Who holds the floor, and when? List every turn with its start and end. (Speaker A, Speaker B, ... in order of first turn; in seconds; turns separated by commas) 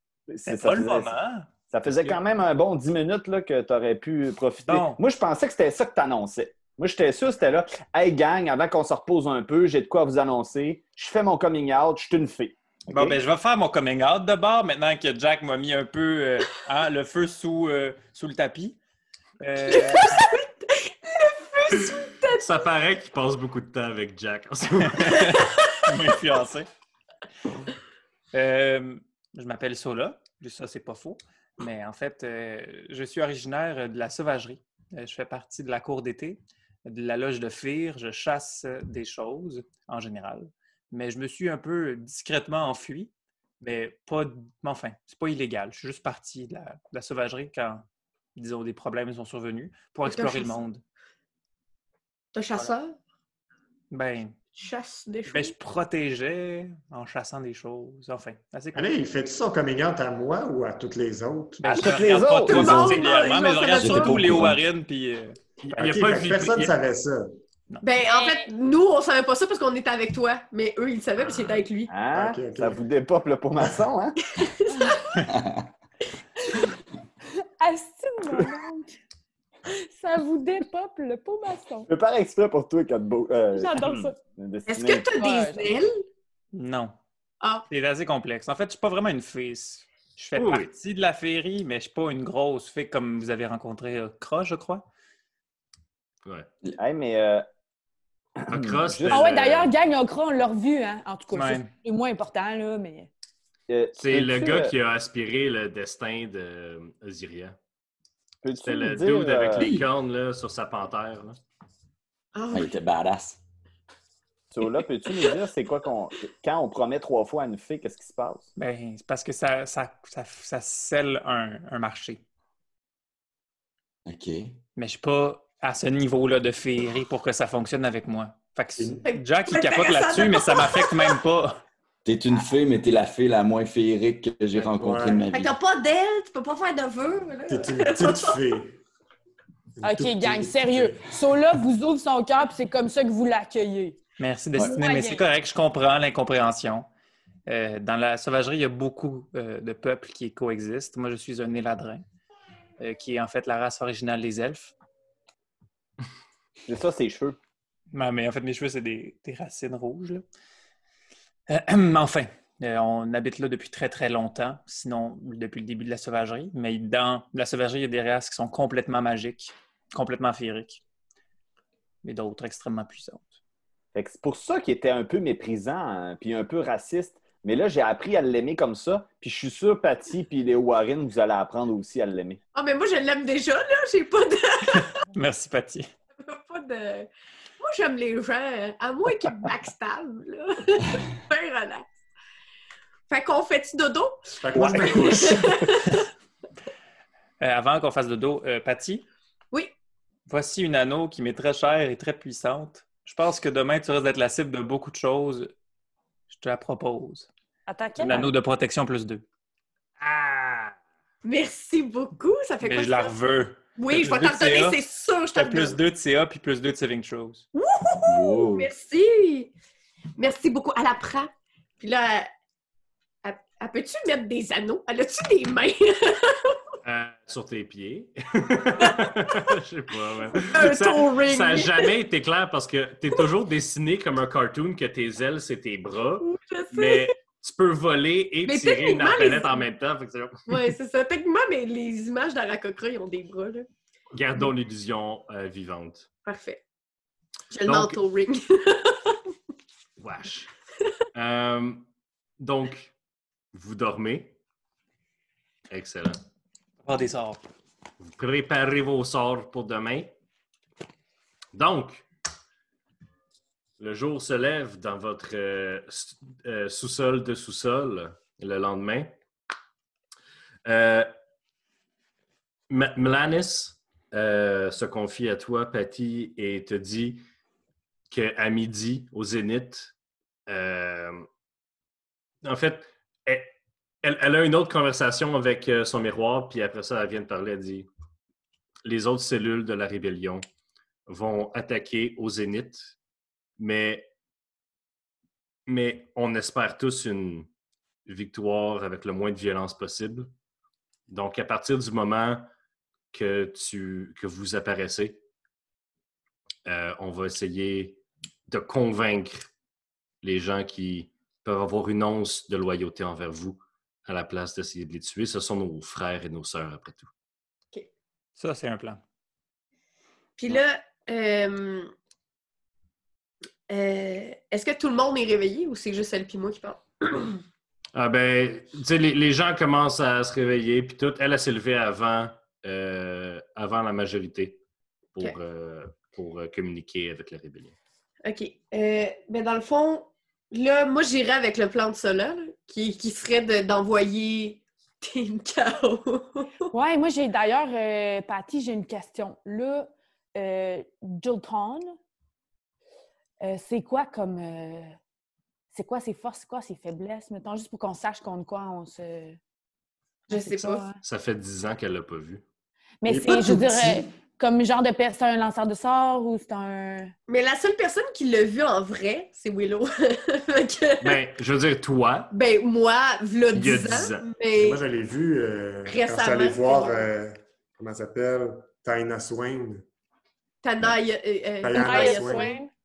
Speaker A: 0.3-1.1, Speaker B: 0.5-2.2, Speaker A: 1.7-13.2, Speaker B: 4.7-5.0, Speaker B: 12.9-18.8, Speaker B: 19.4-20.2, Speaker C: 19.7-22.6, Speaker D: 21.9-25.4, Speaker B: 24.8-26.7, Speaker B: 28.3-47.9, Speaker B: 48.4-50.8, Speaker C: 50.0-50.6, Speaker C: 52.3-53.0, Speaker B: 53.9-54.4, Speaker C: 54.5-55.5, Speaker B: 55.3-58.9, Speaker E: 58.7-62.0, Speaker B: 61.6-65.4, Speaker A: 61.7-63.0, Speaker C: 62.3-64.3, Speaker F: 63.8-64.6, Speaker D: 65.7-66.7, Speaker E: 65.7-67.3, Speaker C: 67.8-71.9, Speaker G: 68.1-68.5, Speaker A: 71.9-74.2, Speaker E: 72.1-72.8, Speaker C: 74.3-75.0, Speaker F: 75.4-75.6, Speaker G: 77.4-79.0, Speaker G: 79.7-81.9, Speaker A: 81.9-85.1, Speaker G: 83.5-84.2, Speaker C: 84.7-86.0, Speaker G: 85.2-85.7, Speaker B: 86.5-87.0, Speaker C: 87.4-87.7, Speaker B: 87.7-94.8, Speaker D: 90.4-90.7, Speaker A: 96.7-97.5, Speaker A: 98.4-99.4, Speaker D: 98.5-99.7, Speaker G: 99.1-103.1, Speaker B: 101.3-101.7, Speaker A: 103.7-104.7, Speaker D: 104.0-107.6, Speaker A: 108.4-109.8, Speaker D: 108.6-111.4, Speaker C: 112.3-112.7, Speaker F: 112.5-113.4, Speaker A: 114.5-118.5, Speaker B: 118.6-122.2, Speaker F: 124.1-124.6, Speaker B: 124.8-131.6, Speaker C: 129.0-131.2, Speaker F: 132.1-135.6, Speaker E: 134.7-135.3, Speaker C: 135.3-138.4, Speaker E: 137.5-138.8, Speaker E: 139.8-141.2, Speaker G: 139.8-144.0, Speaker B: 144.2-146.9, Speaker G: 144.6-145.2, Speaker B: 147.5-152.0, Speaker B: 152.8-154.7, Speaker A: 156.7-157.4, Speaker B: 157.9-160.2, Speaker B: 161.5-170.8, Speaker B: 172.0-173.4, Speaker A: 173.9-182.4, Speaker C: 182.5-184.9, Speaker B: 184.7-185.9, Speaker C: 186.2-187.1, Speaker C: 187.6-191.9, Speaker C: 193.1-196.1, Speaker E: 194.4-195.6, Speaker B: 194.8-195.1, Speaker B: 197.4-199.1, Speaker B: 200.3-205.5, Speaker B: 206.3-207.3, Speaker G: 207.7-208.2, Speaker B: 208.0-209.2, Speaker D: 210.0-210.8, Speaker C: 211.2-213.2, Speaker B: 212.6-214.8, Speaker C: 213.8-215.8, Speaker B: 215.3-217.4, Speaker C: 217.5-219.5, Speaker F: 218.1-218.7, Speaker C: 220.2-222.3, Speaker C: 223.2-226.6, Speaker D: 226.8-240.7, Speaker C: 230.3-231.9, Speaker C: 236.2-237.1, Speaker C: 238.5-239.6, Speaker C: 240.5-243.7, Speaker D: 244.1-246.1, Speaker C: 246.2-246.6, Speaker C: 247.5-249.2, Speaker D: 247.7-248.0, Speaker D: 250.0-250.5, Speaker D: 251.1-251.9, Speaker D: 252.4-252.9, Speaker D: 253.5-254.3, Speaker D: 255.7-256.2, Speaker B: 256.8-257.4, Speaker D: 258.0-260.1, Speaker D: 261.5-262.1, Speaker D: 263.8-269.1, Speaker D: 270.6-271.1, Speaker D: 272.7-277.2, Speaker D: 278.1-279.9, Speaker D: 280.5-281.3, Speaker D: 282.4-287.9, Speaker D: 288.9-290.4, Speaker D: 291.1-292.9, Speaker D: 293.6-294.1, Speaker D: 295.7-297.5, Speaker D: 298.1-300.3, Speaker D: 301.1-302.5, Speaker D: 303.1-305.2, Speaker D: 306.7-309.5, Speaker D: 310.2-317.1, Speaker B: 318.4-319.0, Speaker C: 320.4-321.9, Speaker C: 323.7-327.4, Speaker D: 327.9-334.6, Speaker D: 335.1-337.8, Speaker C: 338.2-346.7, Speaker G: 346.7-352.0, Speaker G: 353.4-354.9, Speaker G: 355.7-359.4, Speaker C: 360.3-360.9, Speaker G: 360.3-361.0, Speaker D: 361.0-362.4, Speaker G: 363.0-367.1, Speaker E: 363.1-364.1, Speaker C: 367.3-371.2, Speaker D: 371.0-372.3, Speaker C: 372.3-374.8, Speaker D: 373.5-374.2, Speaker E: 374.6-379.9, Speaker C: 375.9-377.1, Speaker C: 380.6-382.6, Speaker E: 381.6-382.5, Speaker G: 381.7-382.7